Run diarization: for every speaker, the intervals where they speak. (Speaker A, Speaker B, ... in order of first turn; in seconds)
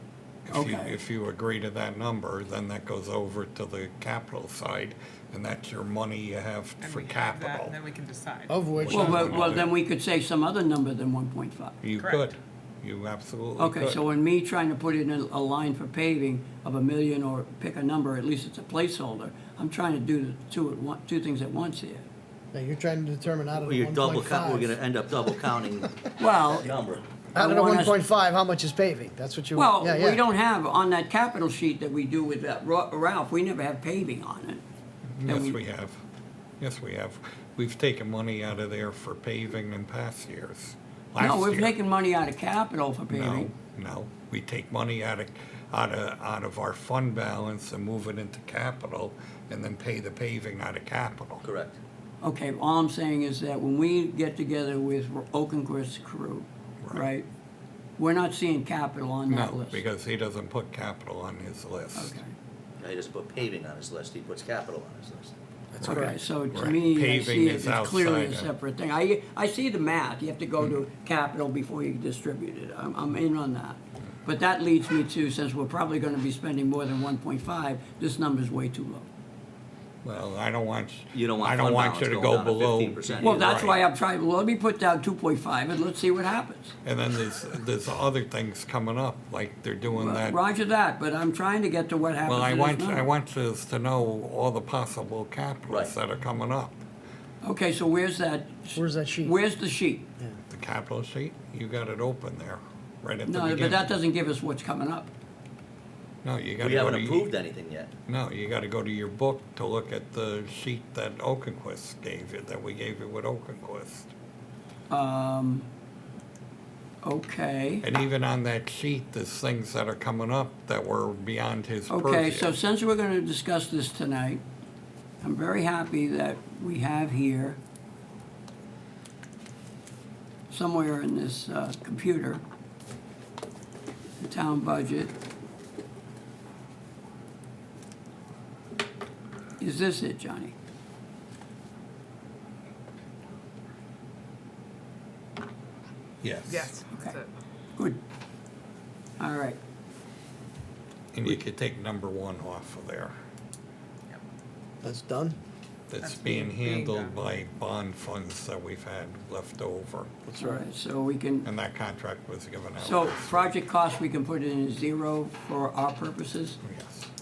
Speaker A: 0.5-7.8, 8.8-9.8, 11.8-14.0, 35.2-36.0, 36.6-41.8, 43.1-51.5, 56.8-57.1, 59.3-62.1, 65.8-68.5, 80.0-83.8, 86.8-90.4, 92.2-96.7, 100.5-103.9, 106.2-107.3, 108.1-114.1, 117.8-122.6, 146.2-146.7, 151.1-153.1, 155.9-160.1, 161.4-163.5, 166.6-167.1
Speaker B: 0.5-1.0, 8.9-11.8, 13.6-22.1, 26.2-26.7, 27.3-28.0, 29.5-34.6, 35.2-35.6, 41.2-43.5, 52.2-57.3, 58.0-59.8, 61.9-62.3, 65.8-79.1, 83.2-86.7, 89.9-93.1, 97.4-100.0, 103.2-105.1, 114.9-115.7, 117.0-117.8, 121.9-124.4, 125.2-127.6, 130.5-132.4, 134.2-135.1, 139.6-140.5, 146.9-147.2, 147.8-148.0, 149.2-149.6, 160.4-161.5, 162.8-166.6
Speaker C: 6.8-9.5, 11.9-12.2, 146.5-147.3, 156.0-157.1
Speaker D: 8.5-9.3, 22.5-25.4, 27.3-30.2, 65.7-66.2, 98.8-99.3, 154.8-155.4, 160.3-160.6
Speaker E: 23.6-25.9, 26.6-27.1, 51.4-51.8, 62.8-65.3, 81.1-83.4, 95.7-96.0, 106.6-107.9